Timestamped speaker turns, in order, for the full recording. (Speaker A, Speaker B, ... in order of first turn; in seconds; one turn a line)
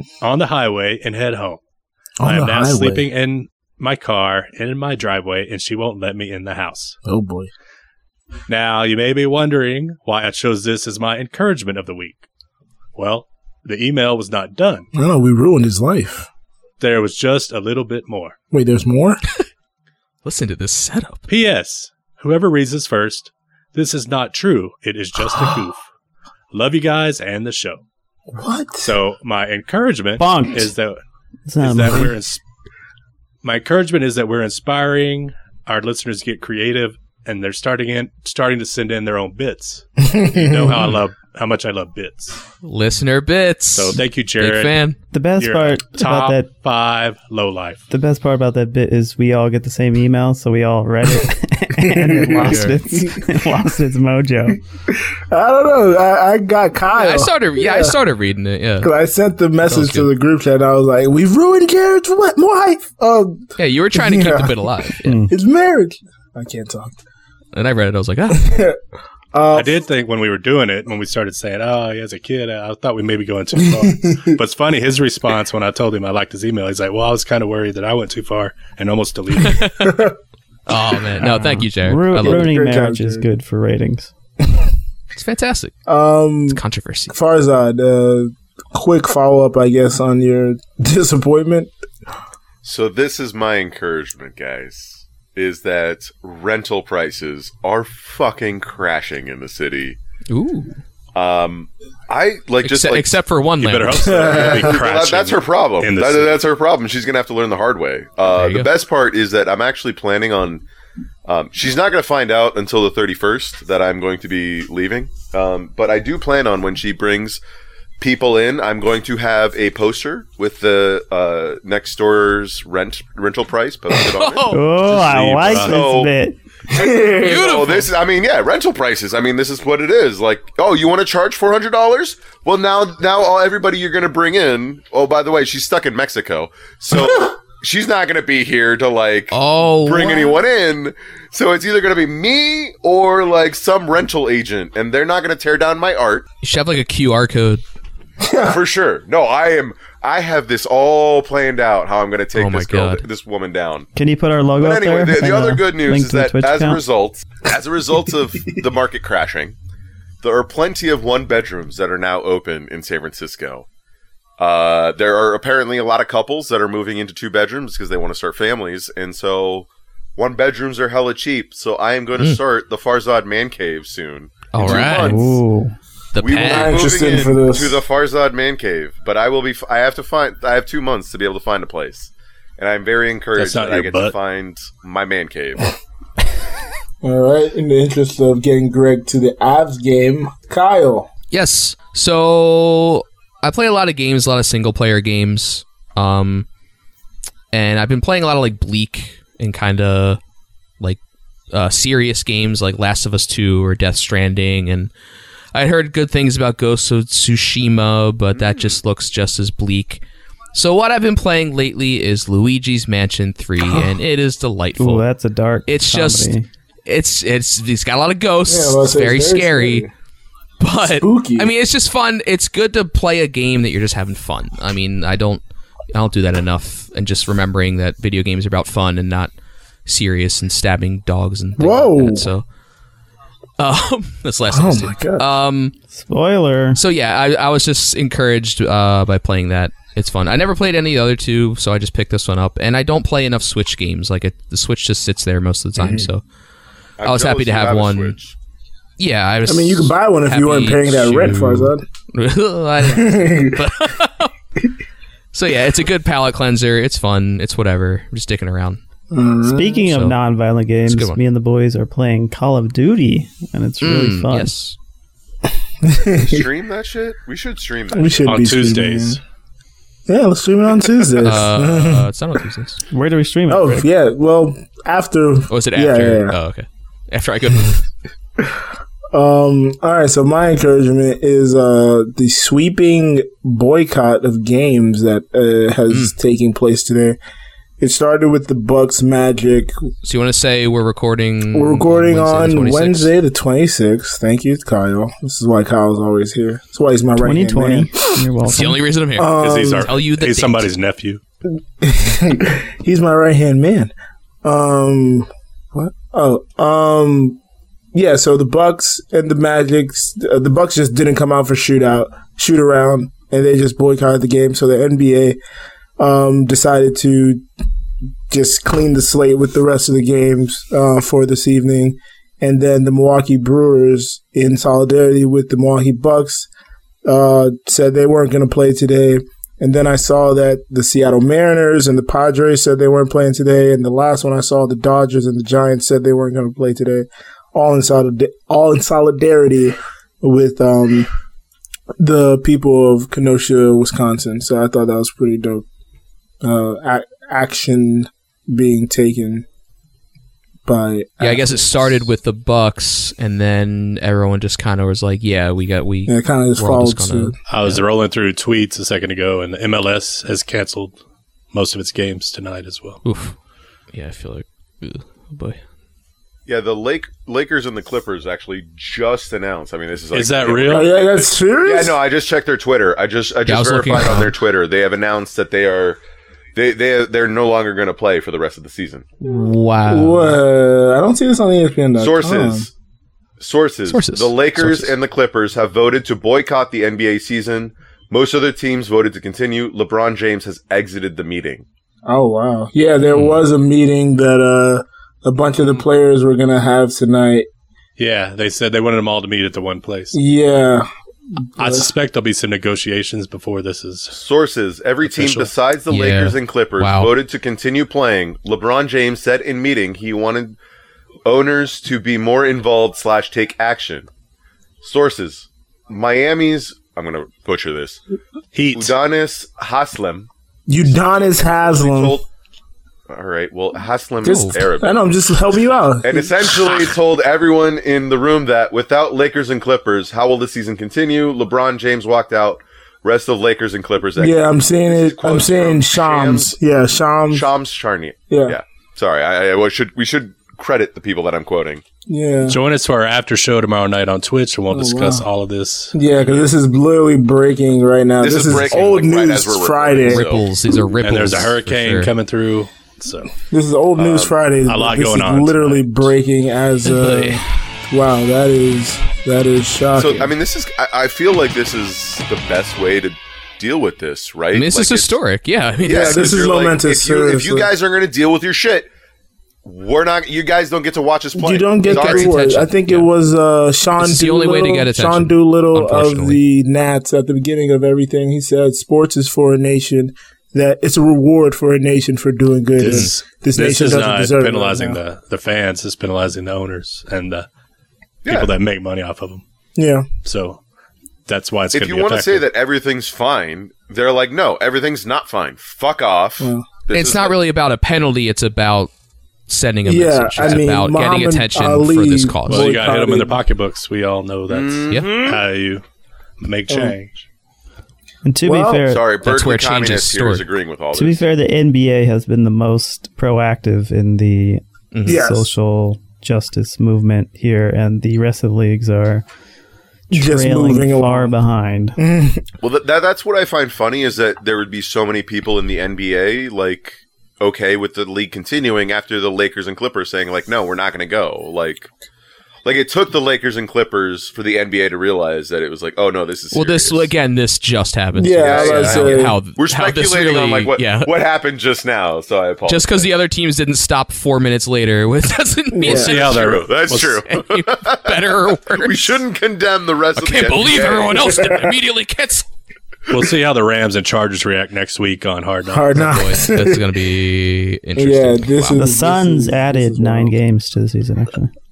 Speaker A: 0.2-1.6
Speaker B: 2.2-3.1
Speaker A: 2.2-7.0
Speaker B: 7.0-7.5
Speaker A: 8.5-12.2
Speaker A: 12.9-14.9
Speaker B: 14.9-16.3
Speaker A: 16.8-18.4
Speaker B: 18.5-19.2
Speaker C: 20.2-21.3
Speaker A: 21.3-25.9
Speaker B: 25.2-25.5
Speaker A: 26.5-27.8
Speaker B: 28.3-29.0
Speaker A: 28.8-31.0
Speaker D: 30.2-30.7
Speaker D: 31.5-32.1
Speaker A: 31.6-32.4
Speaker A: 33.4-42.4
Speaker B: 40.0-40.9
Speaker C: 42.6-45.0
Speaker A: 43.7-44.8
Speaker D: 45.1-46.5
Speaker A: 45.4-47.8
Speaker D: 47.9-54.6
Speaker B: 51.8-53.3
Speaker C: 52.4-52.7
Speaker B: 54.9-58.0
Speaker C: 56.9-58.9
Speaker B: 58.8-67.0
Speaker C: 59.6-60.1
Speaker C: 63.6-65.2
Speaker D: 65.0-65.3
Speaker C: 67.5-68.6
Speaker B: 68.3-68.8
Speaker B: 69.3-69.8
Speaker A: 69.5-79.7
Speaker B: 73.6-74.3
Speaker C: 79.4-79.8
Speaker B: 79.8-80.1
Speaker C: 80.7-82.5
Speaker B: 81.2-81.5
Speaker D: 81.2-84.1
Speaker B: 82.1-83.2
Speaker C: 85.1-85.8
Speaker B: 85.9-86.6
Speaker C: 86.5-87.1
Speaker B: 87.1-91.7
Speaker E: 92.6-100.0
Speaker C: 100.3-100.8
Speaker E: 101.1-103.1
Speaker C: 102.6-104.5
Speaker A: 103.6-106.3
Speaker B: 104.0-104.8
Speaker E: 104.3-110.6
Speaker C: 108.3-108.7
Speaker E: 111.2-117.4
Speaker E: 118.0-124.5
Speaker C: 123.9-124.6
Speaker D: 124.5-126.3
Speaker A: 124.7-125.7
Speaker E: 125.5-126.1
Speaker B: 126.7-127.4
Speaker E: 126.7-146.2
Speaker C: 127.2-127.9
Speaker C: 139.3-140.3
Speaker C: 146.4-147.6
Speaker B: 148.2-148.6
Speaker E: 148.4-153.9
Speaker C: 152.3-153.0
Speaker D: 153.9-156.8
Speaker E: 154.6-159.6
Speaker E: 160.2-163.7
Speaker E: 164.4-175.4
Speaker C: 174.5-175.2
Speaker D: 174.8-175.7
Speaker C: 176.1-176.9
Speaker E: 176.2-185.7
Speaker B: 176.3-177.8
Speaker A: 183.3-184.1
Speaker B: 187.0-191.1
Speaker C: 191.3-196.4
Speaker C: 197.5-200.2
Speaker C: 201.5-204.9
Speaker C: 205.5-210.0
Speaker C: 210.5-215.0
Speaker D: 214.8-216.5
Speaker C: 215.7-216.3
Speaker C: 216.8-219.8
Speaker B: 218.4-219.9
Speaker C: 220.6-229.3
Speaker B: 221.0-221.5
Speaker C: 229.8-232.4
Speaker B: 231.6-232.3
Speaker C: 233.6-235.7
Speaker B: 234.5-235.2
Speaker D: 235.9-236.8
Speaker C: 236.8-246.2
Speaker B: 245.8-246.1
Speaker E: 247.0-248.3
Speaker C: 247.0-248.2
Speaker C: 249.0-254.3
Speaker B: 249.4-251.8
Speaker B: 252.8-253.6
Speaker C: 255.3-258.8
Speaker B: 259.1-259.8
Speaker D: 259.4-264.5
Speaker C: 259.8-260.1
Speaker C: 260.9-261.2
Speaker C: 263.8-264.8
Speaker B: 265.8-266.5
Speaker E: 266.2-268.2
Speaker B: 267.9-269.2
Speaker A: 268.2-269.2
Speaker B: 270.1-272.1
Speaker C: 271.2-272.8
Speaker D: 272.9-273.9
Speaker B: 273.5-276.4
Speaker C: 275.5-277.8
Speaker B: 279.1-287.2
Speaker C: 285.9-286.1
Speaker B: 287.8-289.7
Speaker C: 290.0-293.1
Speaker B: 291.5-298.2
Speaker D: 297.2-298.8
Speaker C: 298.5-300.7
Speaker B: 299.1-299.9
Speaker A: 299.4-301.2
Speaker B: 301.8-303.9
Speaker B: 304.4-307.4
Speaker B: 307.9-315.4
Speaker B: 316.0-317.4
Speaker B: 318.3-326.5
Speaker B: 327.0-341.1
Speaker B: 342.0-345.6
Speaker B: 346.4-349.4
Speaker B: 350.6-352.1
Speaker C: 351.2-357.8
Speaker B: 356.1-357.4
Speaker A: 357.5-361.0
Speaker A: 361.5-363.0
Speaker C: 363.0-363.3
Speaker C: 363.9-365.6
Speaker E: 366.4-376.0
Speaker A: 370.1-370.9
Speaker B: 370.7-372.0
Speaker C: 373.4-374.3
Speaker E: 376.5-379.0
Speaker B: 379.2-382.7
Speaker C: 379.3-380.4
Speaker E: 382.0-382.7
Speaker E: 383.4-391.6
Speaker C: 383.9-384.9
Speaker B: 392.1-397.5
Speaker C: 393.1-393.4
Speaker A: 398.0-400.1
Speaker B: 400.1-401.9
Speaker A: 401.6-404.1
Speaker E: 404.1-410.6
Speaker A: 405.1-405.5
Speaker C: 405.9-407.1
Speaker E: 411.2-414.1
Speaker E: 414.8-418.0
Speaker A: 418.5-418.9
Speaker E: 418.7-420.3
Speaker B: 420.7-422.2
Speaker E: 420.8-422.2
Speaker E: 423.1-425.1
Speaker C: 424.2-424.6
Speaker B: 424.2-426.9
Speaker E: 426.0-436.6
Speaker B: 434.2-437.5
Speaker E: 437.3-441.8
Speaker B: 438.3-438.6
Speaker B: 442.1-442.6
Speaker A: 442.4-446.4
Speaker B: 444.7-445.3
Speaker B: 445.9-450.2
Speaker E: 448.2-450.5
Speaker C: 450.1-452.1
Speaker A: 451.0-453.3
Speaker B: 453.5-460.3
Speaker E: 454.0-454.4
Speaker A: 454.6-456.1
Speaker C: 456.8-457.4
Speaker E: 459.9-465.2
Speaker C: 464.5-466.5
Speaker E: 465.8-468.9
Speaker B: 465.8-467.7
Speaker E: 469.6-472.4
Speaker B: 471.4-485.0
Speaker C: 471.8-473.1
Speaker C: 474.0-476.4
Speaker A: 482.8-487.4
Speaker C: 482.8-483.1
Speaker E: 488.2-488.5
Speaker A: 488.2-489.4
Speaker B: 489.8-490.1
Speaker A: 490.2-490.6
Speaker A: 491.3-492.4
Speaker E: 491.7-497.4
Speaker B: 496.4-496.6
Speaker C: 496.9-498.9
Speaker C: 499.5-502.7
Speaker B: 499.9-503.4
Speaker A: 502.5-505.8
Speaker E: 504.5-505.4
Speaker A: 506.4-507.2
Speaker B: 506.7-506.9
Speaker D: 508.2-509.1
Speaker B: 508.4-508.9
Speaker E: 508.8-511.3
Speaker C: 509.2-510.4
Speaker D: 510.9-519.2
Speaker C: 514.9-515.2
Speaker B: 515.0-515.5
Speaker D: 520.1-522.0
Speaker B: 520.1-521.4
Speaker B: 522.0-522.4
Speaker E: 522.6-531.9
Speaker E: 532.6-537.1
Speaker C: 536.5-541.2
Speaker B: 538.1-539.4
Speaker E: 538.4-543.1
Speaker C: 542.7-549.2
Speaker B: 545.7-546.1
Speaker A: 545.9-547.1
Speaker E: 546.1-548.2
Speaker E: 548.7-551.3
Speaker C: 550.1-552.5
Speaker B: 551.1-551.6
Speaker A: 553.1-556.0
Speaker B: 555.7-556.8
Speaker C: 555.9-558.8
Speaker B: 558.0-560.4
Speaker D: 558.7-561.5